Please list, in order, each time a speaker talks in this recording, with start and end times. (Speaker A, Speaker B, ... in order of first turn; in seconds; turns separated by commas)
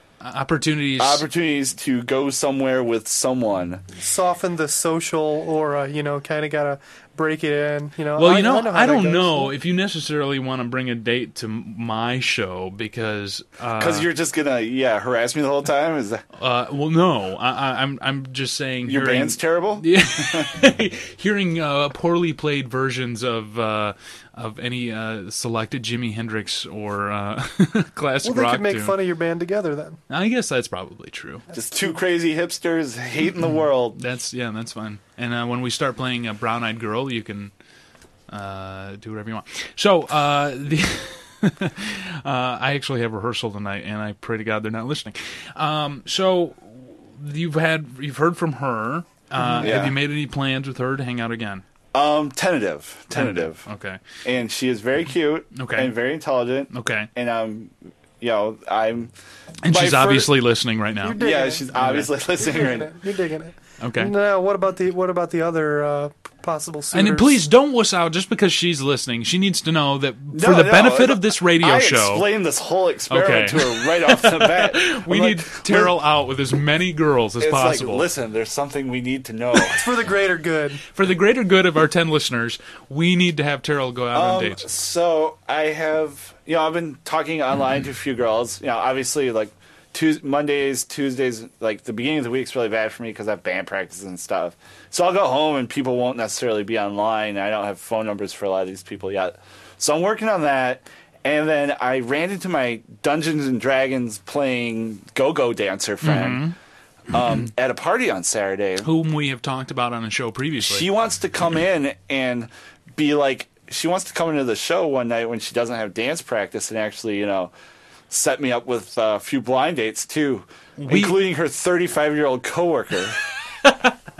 Speaker A: 0.2-1.2, Speaker B: 1.0-3.8, Speaker C: 4.0-9.5, Speaker A: 8.2-14.1, Speaker B: 13.8-16.2, Speaker A: 16.4-29.0, Speaker B: 18.8-20.5, Speaker C: 28.2-30.0, Speaker A: 30.1-31.4, Speaker B: 31.5-34.0, Speaker A: 33.9-37.5, Speaker A: 38.3-51.6, Speaker C: 49.4-49.7, Speaker B: 49.5-50.0, Speaker B: 51.9-53.6, Speaker A: 53.1-54.0, Speaker B: 54.2-59.1, Speaker A: 55.5-55.9, Speaker A: 56.7-57.1, Speaker A: 59.6-61.2, Speaker B: 59.7-60.3, Speaker C: 61.0-67.4, Speaker B: 61.2-62.9, Speaker A: 61.7-62.1, Speaker A: 63.8-64.1, Speaker A: 66.9-72.3, Speaker B: 70.3-76.0, Speaker A: 73.1-78.0, Speaker B: 77.4-79.8, Speaker C: 79.6-80.8, Speaker A: 80.9-84.6, Speaker B: 84.1-106.5, Speaker A: 106.0-106.5, Speaker B: 107.1-108.9, Speaker A: 108.8-110.9, Speaker B: 110.6-117.5, Speaker B: 118.1-123.2, Speaker A: 120.8-121.2, Speaker A: 123.6-123.9